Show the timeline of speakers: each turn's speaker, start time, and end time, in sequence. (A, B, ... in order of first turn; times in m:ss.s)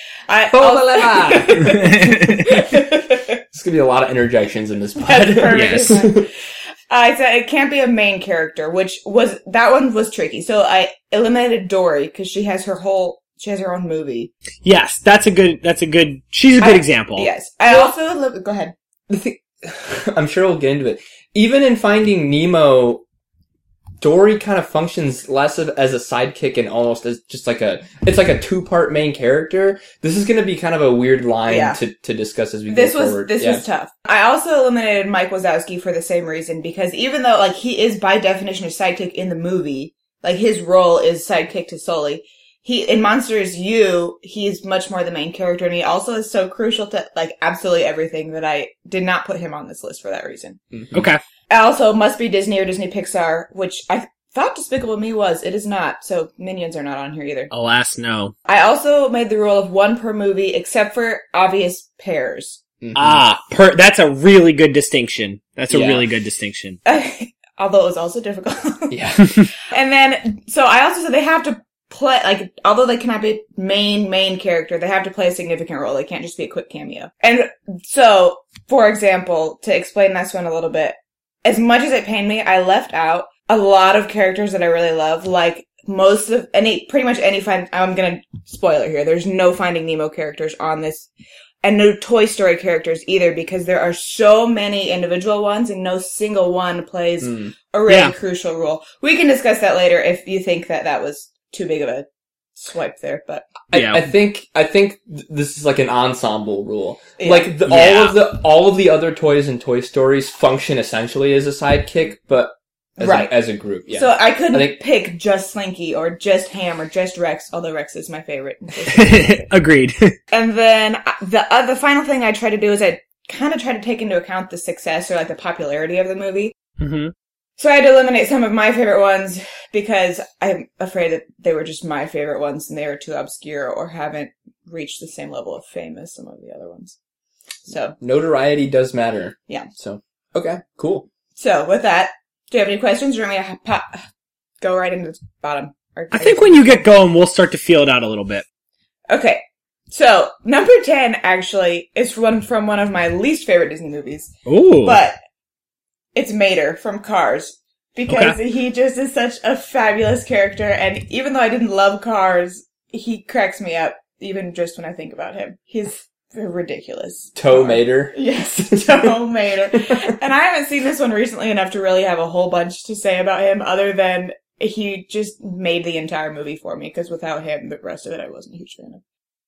0:00.3-0:03.4 A
0:00.5-0:01.9 B
0:01.6-0:02.5 C
0:03.5-0:06.3 B
0:05.0-0:06.3 A
0:05.5-0:06.0 C
0:06.9-0:14.3 A
0:14.6-0:17.3 C
0:16.6-0:18.7 A
0:19.1-0:23.0 B
0:24.0-0:33.6 B
0:31.5-0:31.8 A
0:32.7-0:50.6 A
0:50.7-0:51.0 B
0:50.9-0:51.2 C
0:51.5-0:57.5 A
0:57.5-0:58.3 C
0:58.5-1:02.6 A
1:02.8-1:03.2 B
1:03.0-1:06.8 C
1:05.7-1:06.0 B
1:06.8-1:31.1 A
1:08.9-1:09.4 B
1:31.6-1:43.5 A
1:37.2-1:37.5 B
1:37.9-1:38.2 C
1:43.7-1:54.8 B
1:43.7-1:44.1 C
1:47.2-1:47.5 A
1:47.7-1:48.2 C
1:53.0-1:53.4 A
1:53.9-1:59.5 A
1:58.9-2:00.2 C
2:00.3-2:06.5 A
2:06.8-2:07.1 C
2:07.6-2:17.0 A
2:17.7-2:18.0 A
2:18.0-2:21.1 B
2:21.4-2:24.0 A
2:24.6-2:26.9 A
2:26.1-2:28.4 C
2:29.1-2:35.2 A
2:34.5-2:35.0 C
2:36.2-2:59.0 A
2:38.1-2:38.4 C
2:47.4-2:49.1 B